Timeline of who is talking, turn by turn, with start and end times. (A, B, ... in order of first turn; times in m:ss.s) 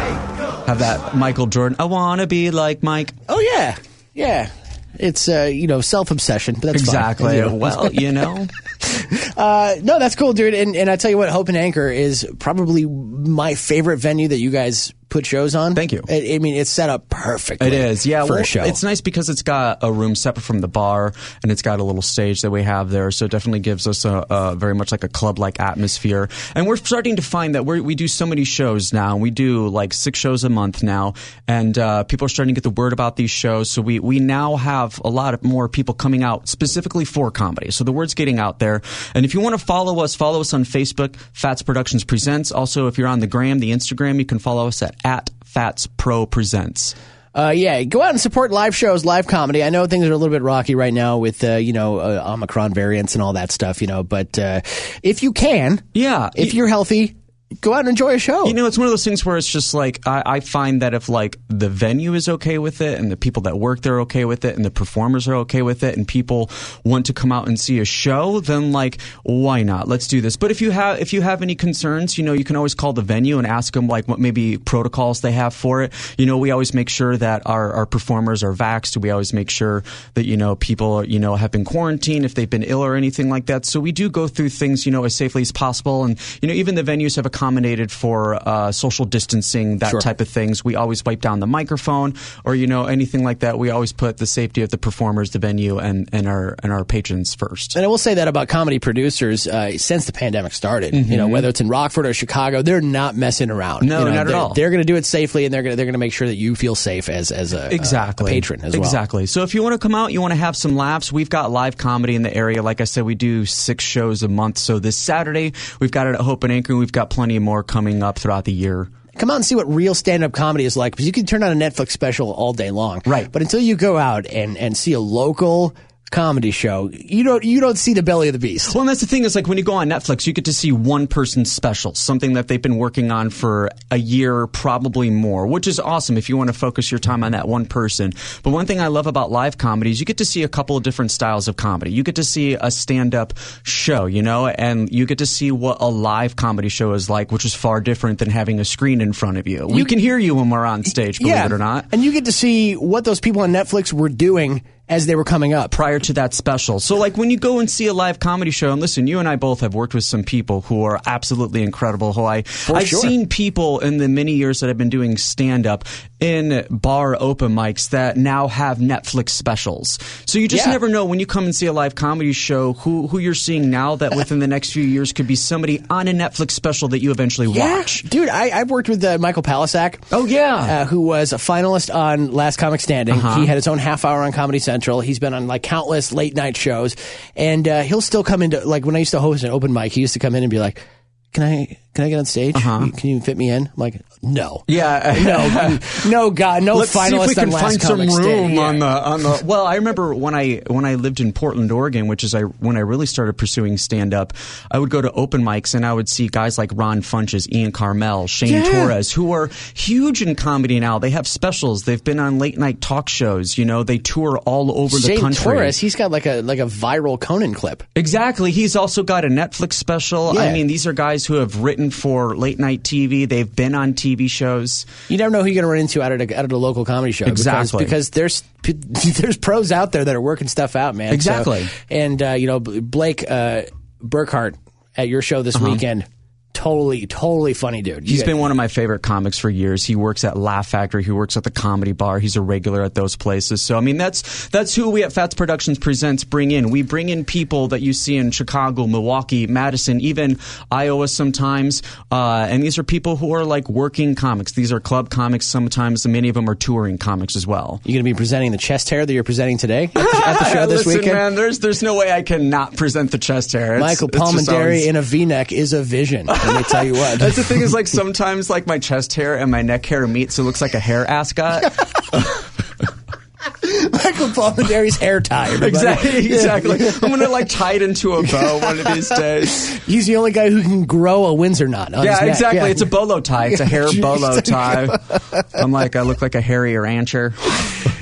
0:00.6-0:03.2 A
0:03.3-0:08.0 B
0:06.7-0:08.5 A
0:08.9-0:18.8 B
0:15.7-0:16.1 A
0:17.6-0:46.9 A
0:47.4-0:55.8 B
0:55.9-0:56.6 A
0:56.4-0:58.6 B
0:58.4-1:37.8 A
1:37.7-1:49.0 B
1:40.9-1:41.5 A
1:43.8-1:44.6 A
1:47.7-1:58.9 A
1:59.2-2:08.7 B
2:08.7-2:31.9 A
2:31.2-2:35.8 B
2:35.7-2:58.0 A
2:42.6-2:43.1 B
2:50.5-2:50.8 B
2:57.5-3:00.1 B
3:00.1-3:00.7 A
3:00.6-3:10.8 B
3:03.1-3:03.5 A
3:11.3-3:18.8 B
3:12.5-3:12.9 A
3:14.7-3:16.0 A
3:16.7-3:35.8 A
3:28.4-3:28.9 B
3:34.9-3:37.8 B
3:38.0-3:44.9 A
3:40.3-3:40.6 B
3:45.1-3:58.4 B
3:47.2-3:47.9 A
3:51.1-3:51.7 A
3:55.6-3:55.8 A
3:58.1-4:17.8 A
4:17.8-4:21.2 B
4:20.0-4:24.9 A
4:23.8-4:27.7 B
4:26.3-4:31.8 A
4:33.6-4:37.2 B
4:35.6-4:39.7 A
4:38.2-4:42.9 B
4:42.0-4:47.7 A
4:43.5-4:44.9 B